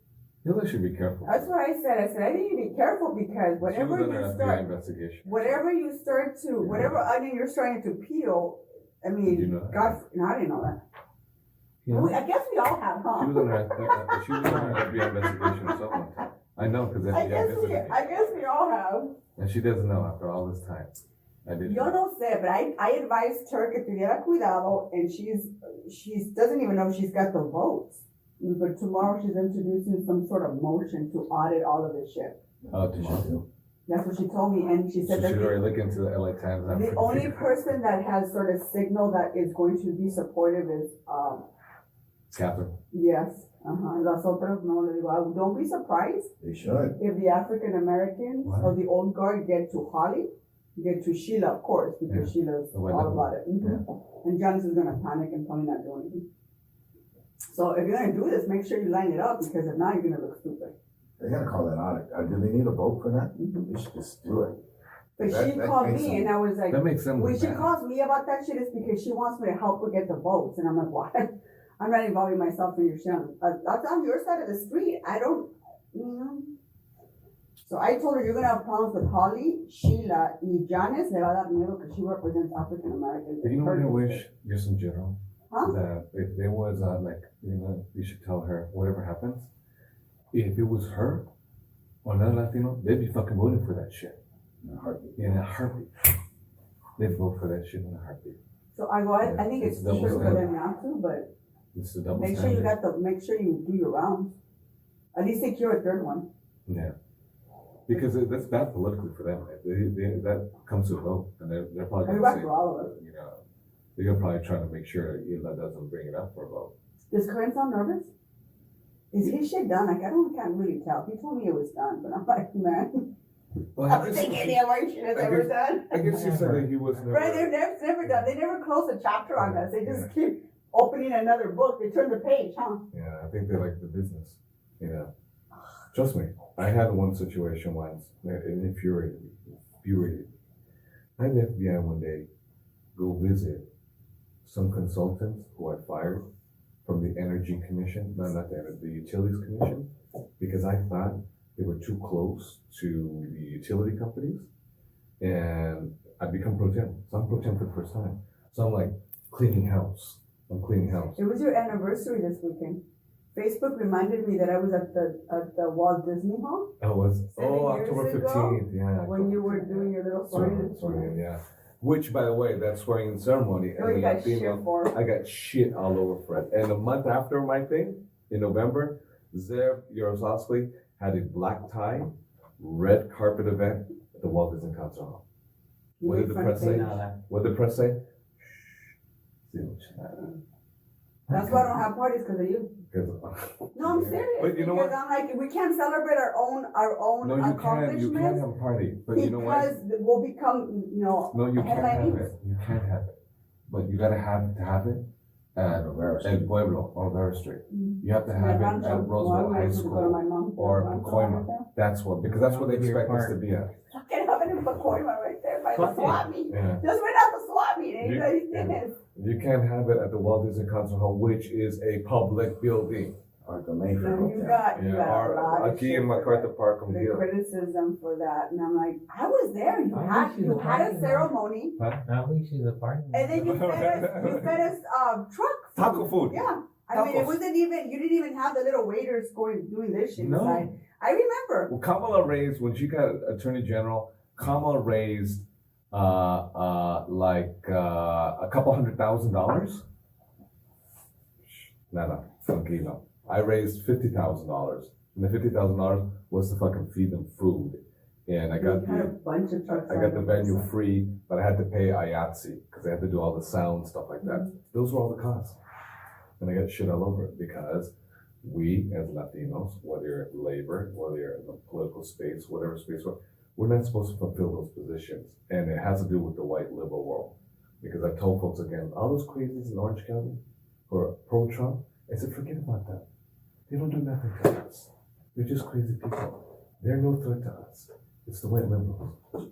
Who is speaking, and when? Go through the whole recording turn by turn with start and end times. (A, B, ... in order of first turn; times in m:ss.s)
0:00.4-0:01.5 A
0:01.2-0:04.6 B
0:03.6-0:05.6 A
0:05.2-0:10.8 B
0:06.6-0:07.0 A
0:09.2-0:09.9 A
0:11.8-0:12.1 C
0:11.9-0:14.0 B
0:13.2-0:18.0 A
0:14.4-0:14.8 C
0:17.1-0:19.1 B
0:19.4-0:22.0 A
0:21.6-0:32.4 B
0:32.7-0:33.4 A
0:33.9-0:35.6 B
0:35.0-0:37.5 A
0:36.7-0:41.4 B
0:42.3-0:42.7 A
0:42.9-0:46.3 B
0:46.4-0:47.0 D
0:47.0-0:56.2 B
0:48.4-0:48.7 A
0:52.1-0:53.8 A
0:57.5-1:00.7 B
1:01.2-1:04.6 D
1:03.4-1:03.7 B
1:05.2-1:16.5 B
1:05.2-1:06.3 D
1:06.7-1:07.7 A
1:17.6-1:24.2 B
1:23.4-1:29.5 A
1:30.3-1:31.2 A
1:32.0-1:34.2 A
1:34.6-1:35.3 D
1:35.2-1:35.9 A
1:37.0-1:38.4 A
1:38.7-1:41.3 B
1:39.2-1:40.4 A
1:41.7-1:42.7 A
1:42.1-1:44.3 B
1:45.1-1:46.3 B
1:46.7-1:46.9 A
1:47.9-1:53.4 A
1:52.0-1:52.9 B
1:54.0-1:56.7 A
1:57.1-1:58.1 B
1:59.1-2:03.0 B
2:03.8-2:04.6 A
2:03.8-2:06.3 B
2:05.1-2:07.5 A
2:06.0-2:06.7 C
2:07.1-2:12.8 B
2:09.4-2:10.1 A
2:12.9-2:15.1 A
2:15.9-2:20.3 A
2:21.2-2:22.3 A
2:23.0-2:23.6 A
2:24.4-2:26.2 A
2:26.8-2:34.5 A
2:35.2-2:41.2 A
2:41.2-2:42.8 B
2:43.3-2:46.7 B
2:46.8-3:05.2 A
2:47.4-2:51.1 B
2:53.8-2:54.9 B
3:06.0-3:07.0 B
3:06.0-3:08.8 A
3:06.6-3:07.2 C
3:09.5-3:10.4 A
3:11.3-3:11.7 A
3:11.3-3:12.7 B
3:12.9-3:14.9 A
3:13.7-3:18.4 B
3:17.2-3:19.8 A
3:19.1-3:22.3 B
3:21.3-3:23.1 A
3:23.7-3:25.0 A
3:25.6-3:33.7 A
3:25.6-3:26.5 D
3:27.7-3:31.7 B
3:32.2-3:33.4 C
3:33.9-3:38.9 B
3:35.7-3:36.2 C
3:36.5-3:36.8 A
3:38.0-3:43.2 A
3:43.4-3:44.6 D
3:44.0-3:51.8 B
3:44.7-3:47.3 A
3:49.9-3:51.3 C
3:51.8-3:52.0 A
3:52.0-3:53.6 C
3:53.1-4:01.7 B
3:53.3-3:54.7 A
3:55.7-3:57.4 A
4:00.2-4:00.7 A
4:01.7-4:09.8 A
4:11.4-4:19.1 A
4:18.6-4:20.7 B
4:19.7-4:25.6 A
4:24.2-4:24.5 B
4:26.4-4:27.9 A
4:28.4-4:43.0 A
4:43.7-4:49.1 A